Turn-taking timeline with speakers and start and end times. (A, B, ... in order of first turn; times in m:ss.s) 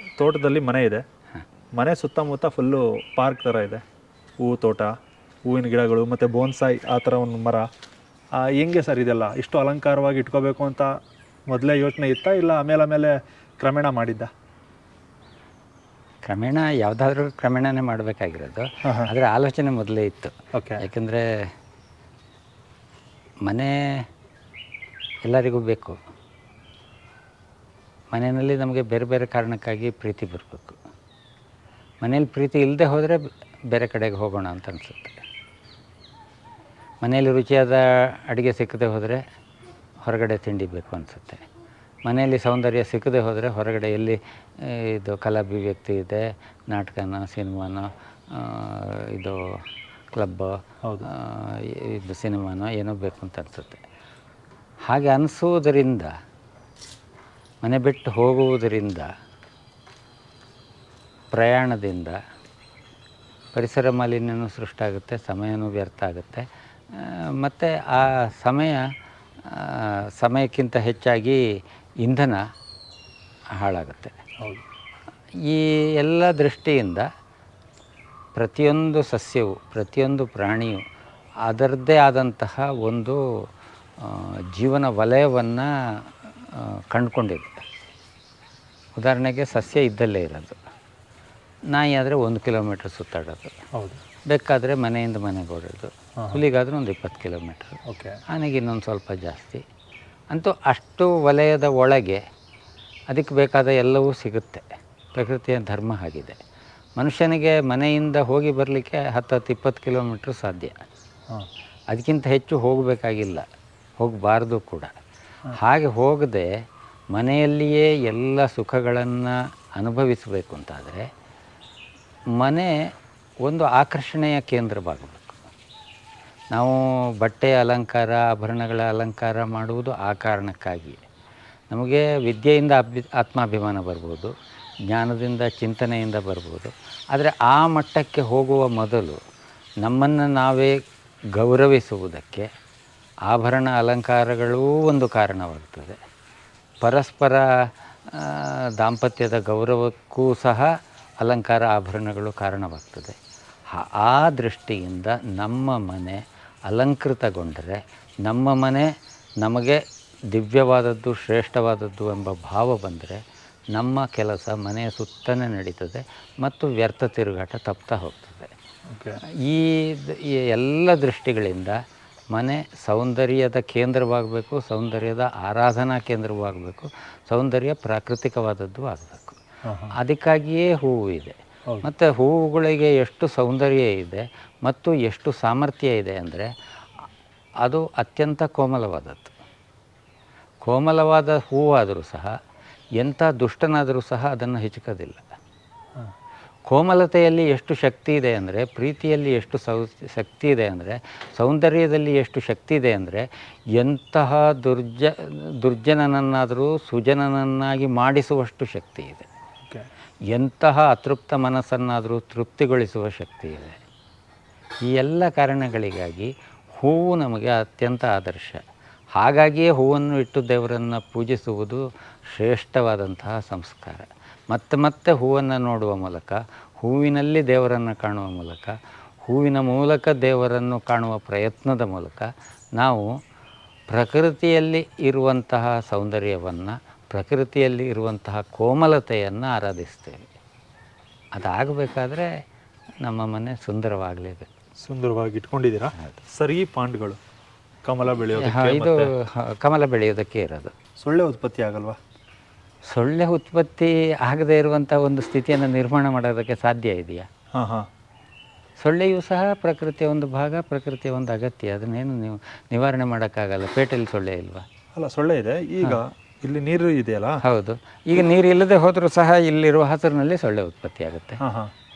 0:00.2-0:01.0 A
0:01.8-0:03.8 A
0:04.4-0:07.7 A
0:08.4-0:10.9 A
0:11.5-0:14.3 A
0:16.3-0:21.5 B
0:18.8-0:19.1 A
0:20.5-0:20.8 A
0:23.4-0:24.1 B
0:25.2-0:26.0 B
0:28.1-0:30.8 B
0:32.0-0:35.2 B
0:37.0-0:39.2 B
0:40.0-0:41.4 B
0:42.0-0:49.6 B
0:50.1-0:53.8 B
0:50.8-0:51.1 A
0:54.9-0:56.1 B
0:57.6-0:59.1 B
1:01.3-1:02.2 B
1:03.5-1:08.8 B
1:09.4-1:11.4 B
1:12.0-1:12.4 B
1:13.6-1:14.2 B
1:15.4-1:17.1 B
1:18.4-1:20.8 B
1:21.5-1:23.2 B
1:24.0-1:27.6 B
1:29.0-1:30.6 B
1:31.7-1:33.6 B
1:33.7-1:34.0 A
1:34.3-1:39.6 B
1:37.9-1:38.2 A
1:40.3-1:42.2 B
1:43.1-1:46.4 B
1:47.0-1:50.8 B
1:51.9-1:53.5 B
1:54.0-1:55.0 B
1:55.6-2:01.1 B
2:02.4-2:02.8 B
2:03.4-2:05.5 B
2:06.5-2:11.0 B
2:11.7-2:14.3 B
2:14.9-2:19.2 B
2:19.8-2:20.8 B
2:21.4-2:22.5 B
2:23.3-2:26.0 B
2:26.8-2:27.5 B
2:28.1-2:33.2 B
2:33.7-2:38.9 B
2:39.4-2:43.2 B
2:43.8-2:48.5 B
2:48.9-2:49.2 A
2:49.4-2:51.8 B
2:52.3-2:59.4 B
2:59.6-3:00.0 A
2:59.9-3:06.5 B
3:07.6-3:09.3 B
3:10.6-3:12.3 B
3:13.0-3:15.2 B
3:16.7-3:29.3 B
3:30.3-3:33.8 B
3:34.8-3:38.6 B
3:39.2-3:53.1 B
3:53.9-4:00.3 B
4:01.4-4:02.3 B
4:03.0-4:04.5 B
4:04.8-4:07.2 A
4:07.8-4:09.1 A
4:08.3-4:10.7 B
4:11.0-4:12.0 A
4:12.9-4:17.3 B
4:17.5-4:17.9 A
4:18.8-4:24.6 B
4:25.0-4:27.4 A
4:27.4-4:31.4 B
4:31.4-4:31.7 A